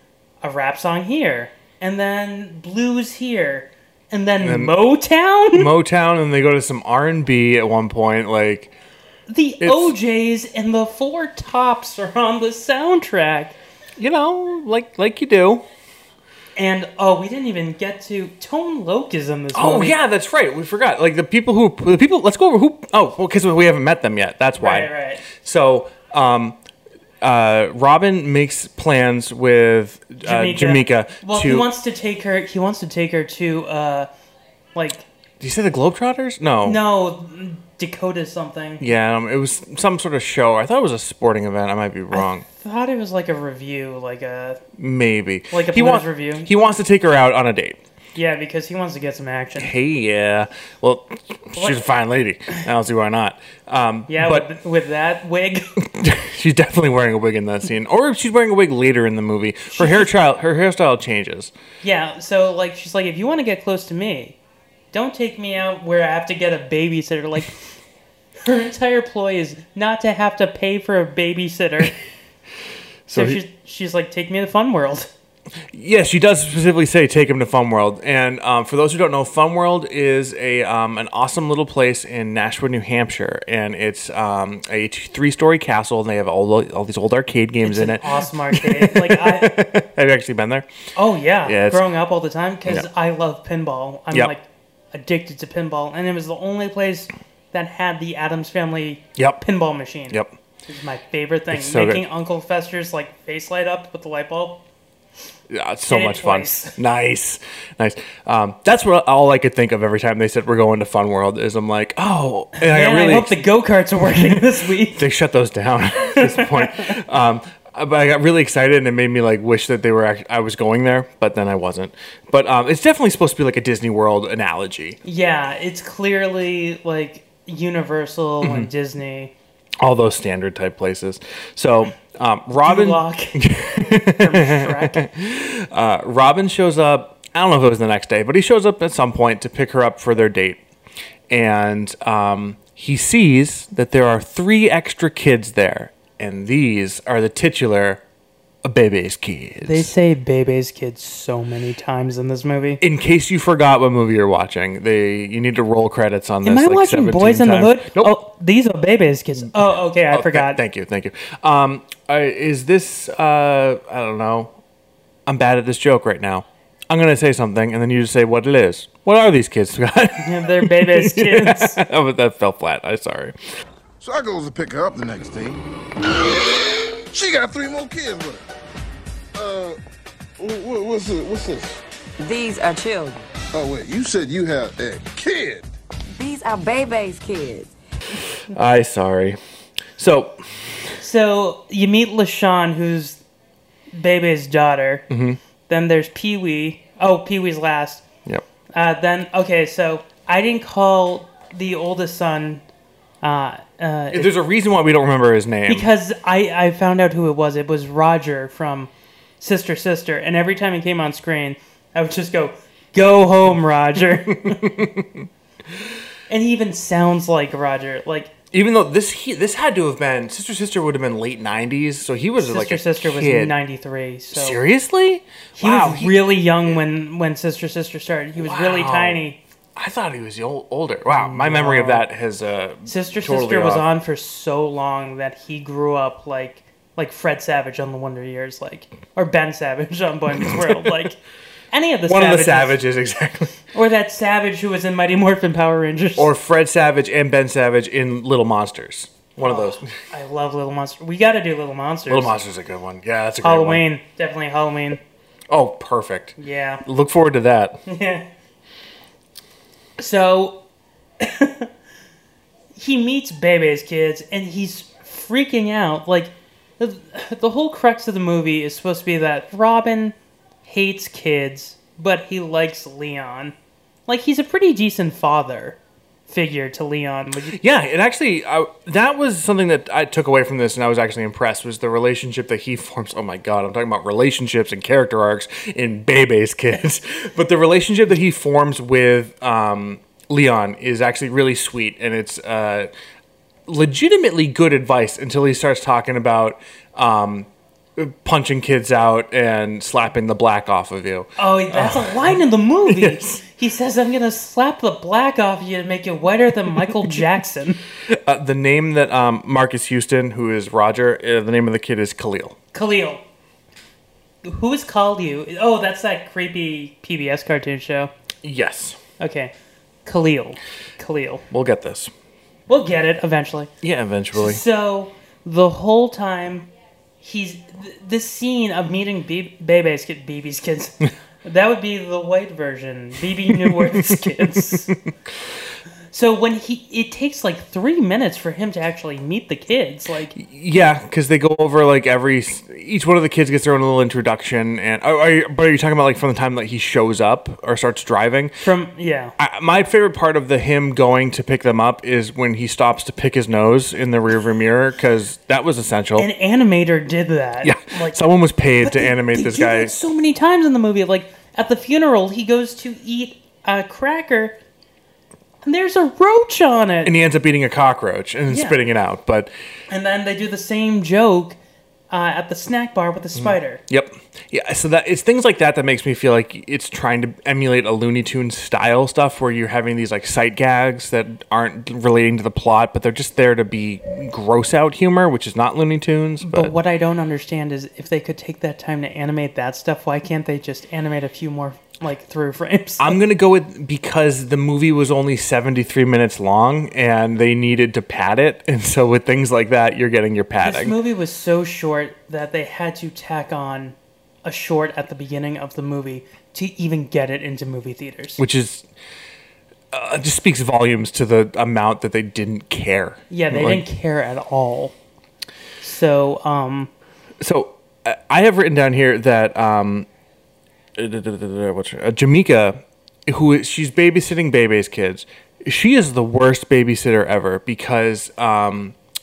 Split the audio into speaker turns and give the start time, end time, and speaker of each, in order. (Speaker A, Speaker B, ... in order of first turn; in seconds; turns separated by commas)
Speaker A: 0.4-5.7, Speaker B: 4.4-4.7, Speaker B: 5.5-8.7, Speaker A: 9.3-13.6, Speaker B: 9.6-9.9, Speaker B: 14.0-15.7, Speaker A: 16.6-19.9, Speaker B: 19.5-26.6, Speaker A: 24.6-25.2, Speaker B: 27.2-31.7, Speaker A: 30.2-34.1, Speaker A: 34.7-35.0, Speaker B: 35.4-36.8, Speaker A: 36.6-38.9, Speaker B: 38.8-42.4, Speaker A: 42.1-44.6, Speaker B: 44.8-47.8, Speaker A: 45.5-46.5, Speaker A: 48.1-49.7, Speaker B: 49.6-54.5, Speaker A: 51.5-51.8, Speaker A: 54.1-55.7, Speaker B: 55.8-61.5, Speaker A: 59.7-60.1, Speaker A: 61.8-64.3, Speaker A: 64.9-67.6, Speaker A: 68.4-71.9, Speaker B: 73.1-73.4, Speaker A: 73.1-75.1, Speaker B: 75.7-90.7, Speaker A: 87.6-89.7, Speaker A: 90.9-104.6, Speaker B: 91.4-91.8, Speaker B: 99.2-99.4, Speaker B: 100.1-100.3, Speaker B: 101.5-102.0, Speaker B: 105.5-113.4, Speaker A: 105.9-106.8, Speaker A: 112.6-115.1, Speaker B: 114.1-125.0, Speaker A: 116.2-117.0, Speaker A: 125.0-129.3, Speaker B: 128.4-128.7, Speaker B: 129.8-140.6, Speaker A: 132.6-135.1, Speaker B: 141.3-148.0, Speaker B: 148.6-149.9, Speaker A: 149.6-152.8, Speaker B: 152.8-158.2, Speaker A: 156.4-160.6, Speaker B: 160.1-164.5, Speaker B: 165.2-173.3, Speaker A: 170.2-171.8, Speaker C: 174.0-175.6, Speaker C: 177.1-178.4, Speaker C: 179.3-179.8, Speaker C: 180.4-181.8, Speaker D: 182.2-183.2, Speaker C: 183.5-185.7, Speaker D: 186.1-187.7, Speaker B: 188.5-189.4, Speaker B: 190.0-190.4, Speaker A: 191.0-193.2, Speaker A: 193.9-195.1, Speaker B: 195.1-195.4, Speaker A: 195.7-198.0, Speaker A: 198.7-202.6, Speaker A: 203.2-204.3, Speaker B: 204.1-205.9, Speaker A: 205.7-214.8, Speaker B: 214.3-215.2, Speaker A: 216.3-218.3, Speaker B: 218.5-223.5, Speaker A: 222.4-224.6, Speaker B: 224.3-226.8, Speaker A: 225.6-229.4, Speaker B: 228.3-229.2, Speaker B: 229.8-233.8, Speaker A: 231.2-232.1, Speaker A: 232.8-241.2, Speaker B: 240.4-240.8, Speaker A: 241.7-242.8, Speaker B: 242.1-243.6, Speaker A: 243.7-246.3, Speaker B: 246.2-249.9, Speaker A: 249.4-252.4, Speaker B: 252.1-253.8, Speaker A: 253.4-255.0, Speaker B: 255.5-257.8, Speaker A: 256.4-256.8, Speaker A: 257.9-258.2, Speaker A: 260.0-260.6, Speaker A: 261.2-261.7, Speaker A: 262.7-270.1, Speaker A: 270.6-273.5, Speaker A: 274.1-277.6, Speaker B: 277.5-292.9, Speaker B: 293.7-302.3, Speaker A: 301.4-307.8, Speaker B: 302.9-303.4, Speaker B: 308.1-312.6, Speaker A: 312.7-313.2, Speaker A: 314.4-318.1, Speaker B: 318.4-319.0, Speaker A: 319.2-319.5, Speaker A: 320.0-321.4, Speaker B: 321.5-322.1, Speaker A: 322.7-323.7, Speaker B: 323.8-324.6, Speaker A: 324.3-326.7, Speaker A: 327.2-334.9, Speaker B: 333.5-334.9, Speaker A: 336.1-340.4, Speaker B: 340.3-348.6, Speaker A: 348.6-349.3, Speaker B: 349.4-356.3, Speaker A: 356.2-358.2, Speaker B: 357.6-359.9, Speaker A: 358.8-364.6, Speaker A: 365.6-367.1, Speaker B: 367.0-369.5, Speaker A: 368.5-368.8, Speaker A: 369.9-371.6, Speaker A: 372.1-373.8, Speaker B: 373.4-386.7, Speaker A: 386.4-393.1, Speaker B: 393.0-401.0, Speaker A: 400.6-408.4, Speaker B: 408.4-408.9, Speaker B: 409.9-413.8, Speaker A: 413.3-414.9, Speaker A: 415.8-416.9, Speaker B: 417.4-420.1, Speaker B: 420.9-428.9